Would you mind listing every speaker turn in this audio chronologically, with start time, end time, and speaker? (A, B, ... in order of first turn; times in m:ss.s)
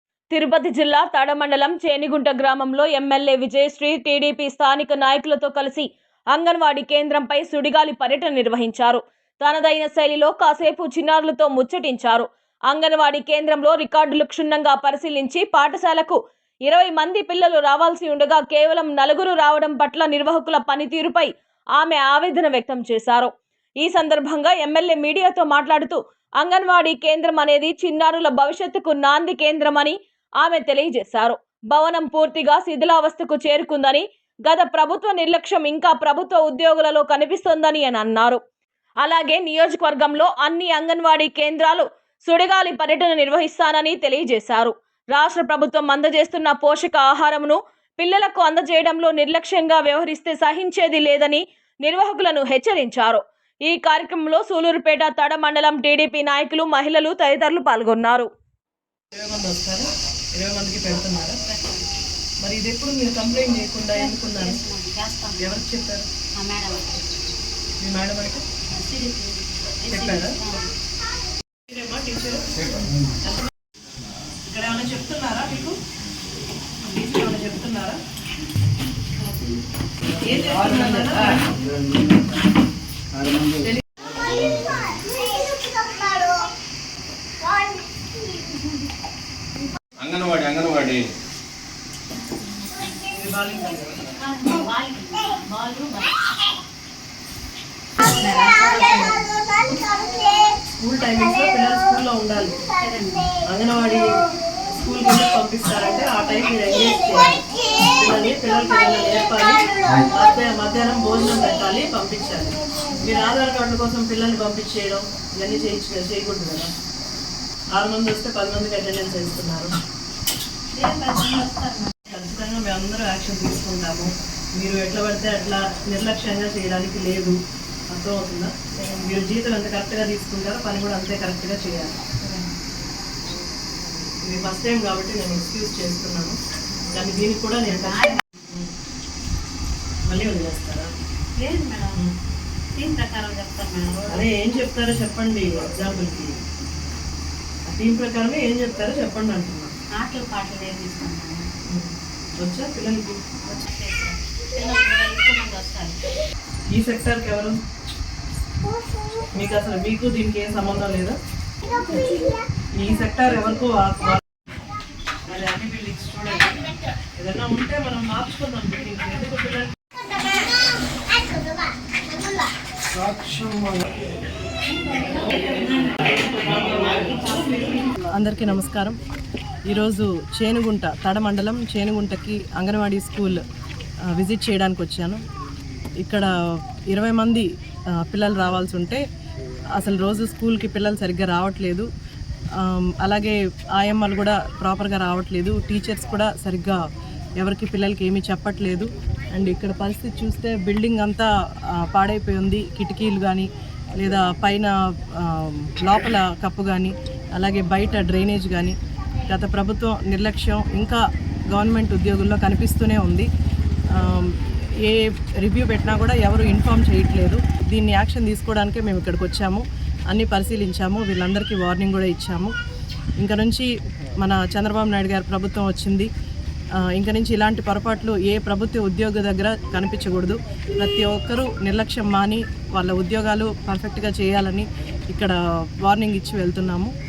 0:00.3-0:38.4 A
0:39.0-0:58.3 A
0:59.1-1:01.4 B
1:01.4-1:01.8 C
1:02.4-1:04.6 B
1:03.9-1:05.7 C
1:05.4-1:06.1 B
1:06.4-1:07.0 C
1:07.8-1:08.4 B
1:08.7-1:10.7 C
1:09.9-1:10.3 B
1:11.7-1:12.7 B
1:13.2-1:13.5 B
1:14.4-1:15.8 B
1:16.8-1:18.0 B
1:19.2-1:19.6 C
1:20.2-1:21.5 B
1:20.5-1:22.2 D
1:23.1-1:23.7 D
1:24.2-1:25.0 D
1:30.0-1:31.1 D
1:33.1-1:34.0 B
1:34.2-1:36.2 C
1:38.0-1:39.2 C
1:40.8-1:42.6 B
1:42.7-1:43.3 C
1:43.5-1:44.0 B
1:44.6-1:56.7 B
1:57.7-1:59.7 B
2:00.7-2:02.0 C
2:02.1-2:07.4 B
2:07.9-2:11.9 B
2:12.2-2:12.5 C
2:14.2-2:16.4 B
2:16.9-2:18.7 B
2:17.7-2:18.2 C
2:20.1-2:20.9 B
2:21.4-2:22.0 C
2:22.8-2:24.2 C
2:24.0-2:26.3 B
2:27.7-2:29.7 B
2:29.9-2:31.5 C
2:31.7-2:33.2 B
2:33.5-2:36.0 C
2:36.7-2:37.6 B
2:39.3-2:41.2 B
2:42.8-2:44.2 B
2:45.3-2:46.6 B
2:47.2-2:49.7 B
2:53.0-2:53.8 D
2:54.9-2:57.9 C
2:58.1-2:59.0 B
2:59.7-3:03.4 B
3:04.1-3:05.2 B
3:06.0-3:06.3 B
3:06.9-3:09.0 B
3:09.8-3:11.9 B
3:12.6-3:16.8 B
3:17.4-3:28.7 B
3:29.3-3:31.0 B
3:31.5-3:33.3 B
3:33.9-3:42.5 B
3:43.2-3:43.7 B
3:44.2-3:46.1 B
3:46.8-3:56.9 B